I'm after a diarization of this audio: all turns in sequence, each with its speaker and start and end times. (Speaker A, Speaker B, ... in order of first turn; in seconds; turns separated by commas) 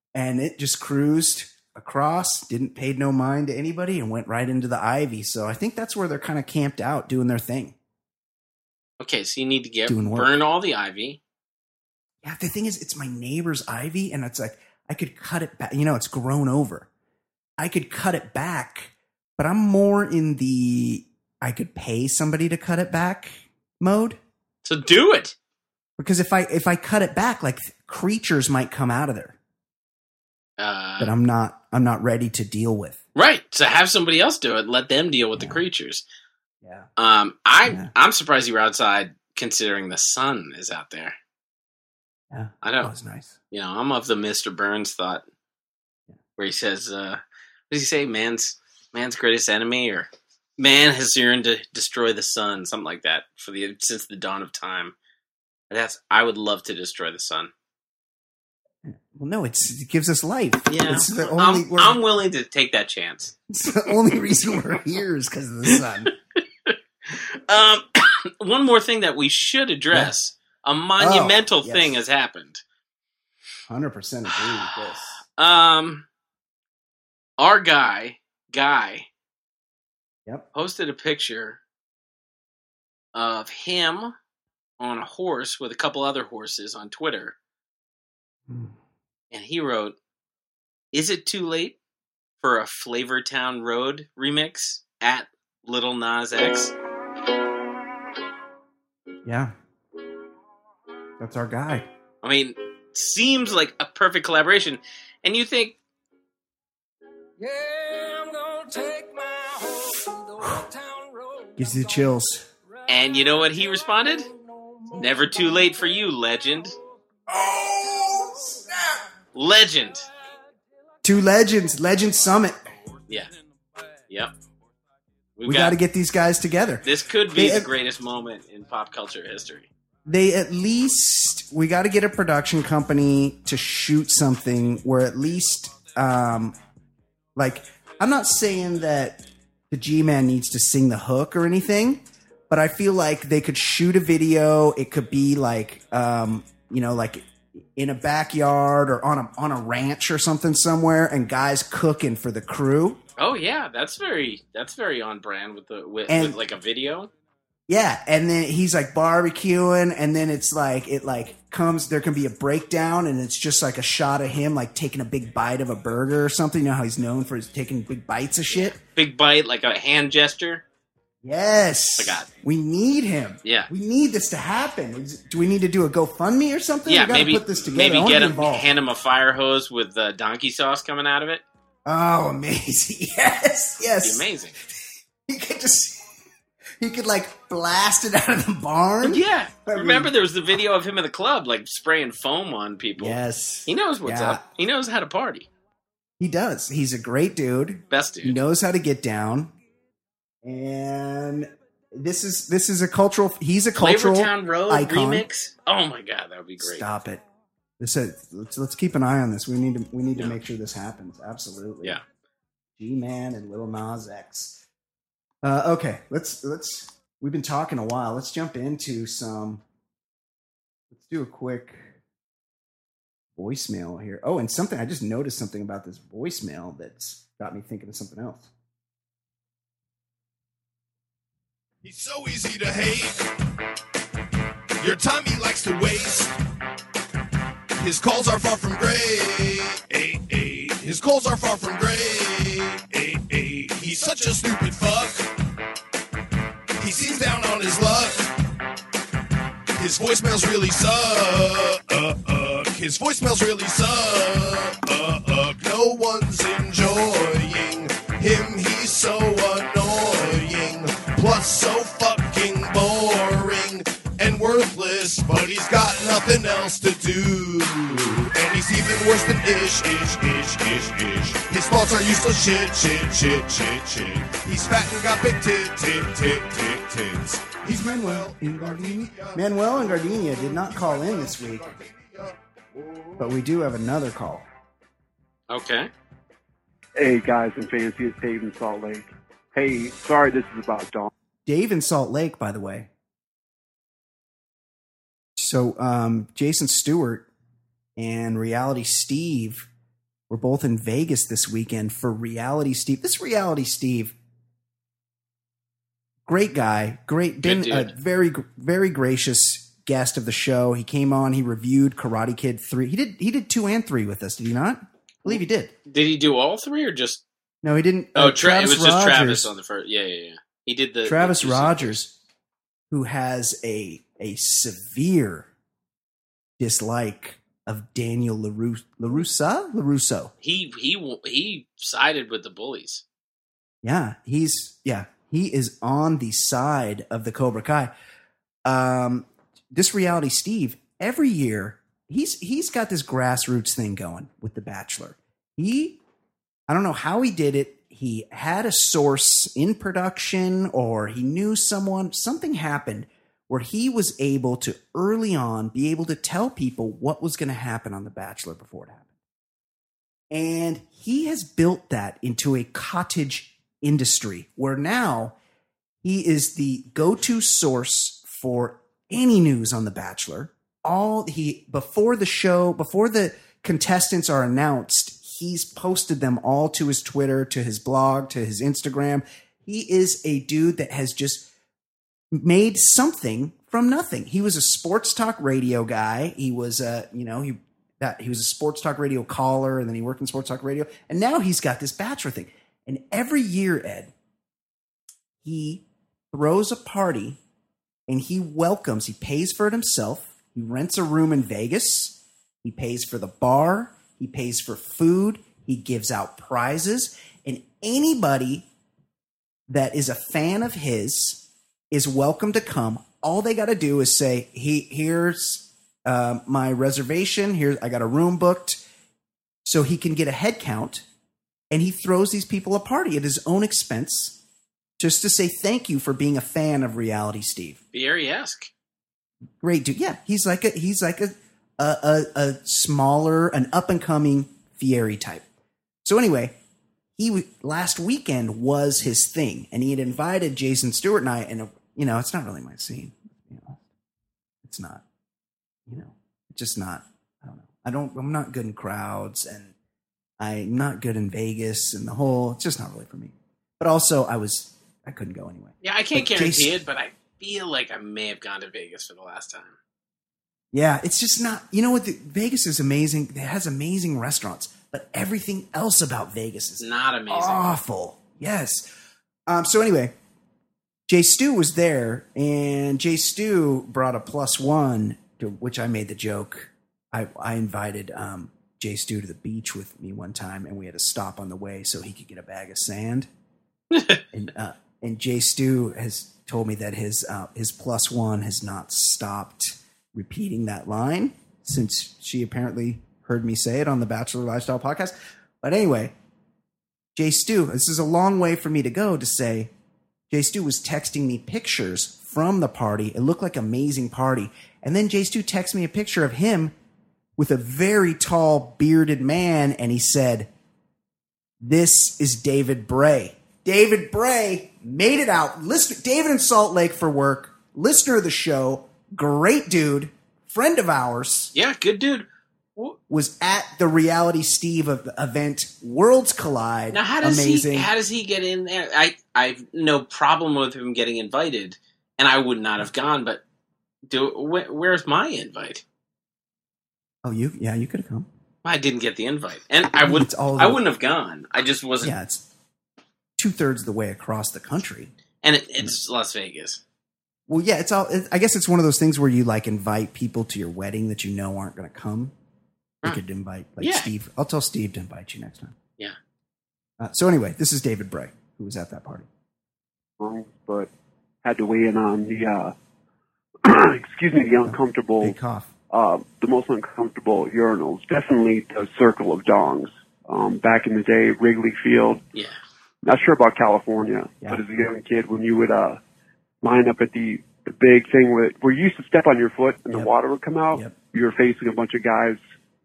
Speaker A: 0.1-7.8, Speaker B: 9.0-11.2, Speaker A: 9.9-10.3, Speaker A: 12.2-16.9, Speaker A: 17.6-24.2, Speaker B: 24.6-25.4, Speaker A: 26.0-29.4, Speaker B: 30.6-31.1, Speaker A: 31.0-33.0, Speaker B: 33.1-36.0, Speaker A: 35.4-35.6, Speaker A: 36.6-36.9, Speaker B: 37.0-41.1, Speaker A: 42.3-43.4, Speaker B: 42.6-42.9, Speaker B: 43.5-45.2, Speaker B: 46.4-55.0, Speaker B: 55.7-57.5, Speaker A: 58.8-62.0, Speaker B: 60.7-63.4, Speaker A: 63.5-66.1, Speaker B: 66.7-72.6, Speaker A: 71.0-72.0, Speaker A: 73.7-75.2, Speaker B: 74.4-76.1, Speaker B: 77.4-79.1, Speaker B: 80.5-81.6, Speaker B: 83.1-84.1, Speaker B: 84.8-87.4, Speaker A: 88.5-88.8, Speaker B: 89.3-90.0, Speaker B: 90.9-91.8, Speaker B: 92.4-96.7, Speaker A: 99.2-99.5, Speaker A: 101.2-101.9, Speaker B: 102.2-105.8, Speaker C: 107.4-112.2, Speaker A: 111.6-112.5, Speaker B: 112.9-114.3, Speaker C: 113.1-116.0, Speaker B: 114.9-116.7, Speaker A: 117.3-118.5, Speaker C: 117.3-119.0, Speaker B: 119.3-120.1, Speaker A: 121.0-122.7, Speaker B: 125.4-125.8, Speaker A: 125.4-127.7, Speaker B: 126.8-129.7, Speaker A: 130.1-136.6, Speaker A: 137.4-153.0, Speaker B: 153.2-157.1, Speaker A: 156.1-156.4, Speaker A: 157.7-168.8, Speaker B: 168.5-170.6, Speaker A: 171.2-178.7, Speaker B: 172.0-172.3, Speaker B: 173.4-173.7, Speaker B: 176.9-181.4, Speaker A: 181.9-184.3, Speaker B: 184.0-184.6, Speaker A: 185.3-186.0, Speaker A: 186.8-190.1, Speaker B: 189.0-195.5, Speaker A: 193.0-194.4, Speaker A: 196.2-199.6, Speaker B: 197.9-198.4, Speaker A: 200.4-205.3, Speaker B: 203.8-206.9, Speaker A: 206.6-207.2, Speaker A: 207.8-212.0, Speaker A: 212.8-214.6, Speaker A: 215.4-219.6, Speaker A: 220.9-221.9, Speaker A: 223.4-228.5, Speaker D: 231.8-233.3, Speaker D: 234.8-236.3, Speaker D: 237.8-245.3, Speaker D: 246.8-248.3, Speaker D: 249.8-283.2, Speaker A: 277.6-281.8, Speaker A: 283.2-284.5, Speaker B: 285.5-285.9, Speaker E: 287.0-291.1, Speaker A: 291.5-292.9, Speaker A: 295.4-297.3, Speaker A: 298.0-299.7, Speaker A: 300.3-304.2, Speaker A: 306.3-315.7, Speaker B: 307.4-307.9, Speaker B: 315.9-317.2, Speaker A: 317.6-319.5, Speaker B: 318.1-322.0, Speaker A: 321.1-322.2, Speaker A: 322.9-325.5, Speaker A: 326.6-330.3, Speaker B: 330.4-333.0, Speaker A: 333.8-337.9, Speaker A: 338.6-346.0, Speaker A: 346.7-359.1, Speaker A: 360.3-365.4, Speaker A: 366.0-381.5, Speaker A: 382.3-394.1, Speaker A: 395.4-397.4, Speaker A: 398.1-408.7, Speaker A: 409.7-418.8, Speaker A: 419.6-421.1, Speaker A: 421.7-424.4, Speaker A: 425.0-427.8, Speaker B: 427.9-428.7, Speaker A: 429.6-435.4, Speaker A: 436.0-436.6, Speaker A: 437.2-443.9, Speaker A: 444.6-445.0, Speaker A: 445.9-449.7, Speaker A: 450.4-456.8, Speaker B: 455.8-459.8, Speaker A: 460.7-468.9, Speaker B: 466.8-467.8, Speaker A: 469.5-470.1, Speaker A: 471.1-483.3, Speaker B: 483.9-484.2, Speaker A: 484.3-496.1, Speaker A: 497.1-499.7, Speaker A: 500.3-506.7, Speaker A: 507.4-510.5, Speaker A: 511.6-521.5, Speaker B: 521.5-523.0, Speaker A: 523.1-527.9, Speaker B: 526.9-533.4, Speaker B: 534.1-535.8, Speaker A: 537.2-538.3, Speaker B: 538.6-542.1, Speaker A: 540.0-540.8, Speaker A: 542.0-542.5, Speaker A: 543.4-545.1, Speaker B: 545.4-546.8, Speaker A: 547.5-552.3, Speaker A: 553.0-555.8, Speaker B: 553.8-554.1, Speaker A: 557.0-559.3, Speaker E: 560.2-560.9, Speaker E: 561.4-562.7, Speaker E: 563.6-565.4, Speaker A: 564.6-565.7, Speaker E: 565.9-572.2, Speaker E: 573.0-576.0, Speaker E: 576.6-582.4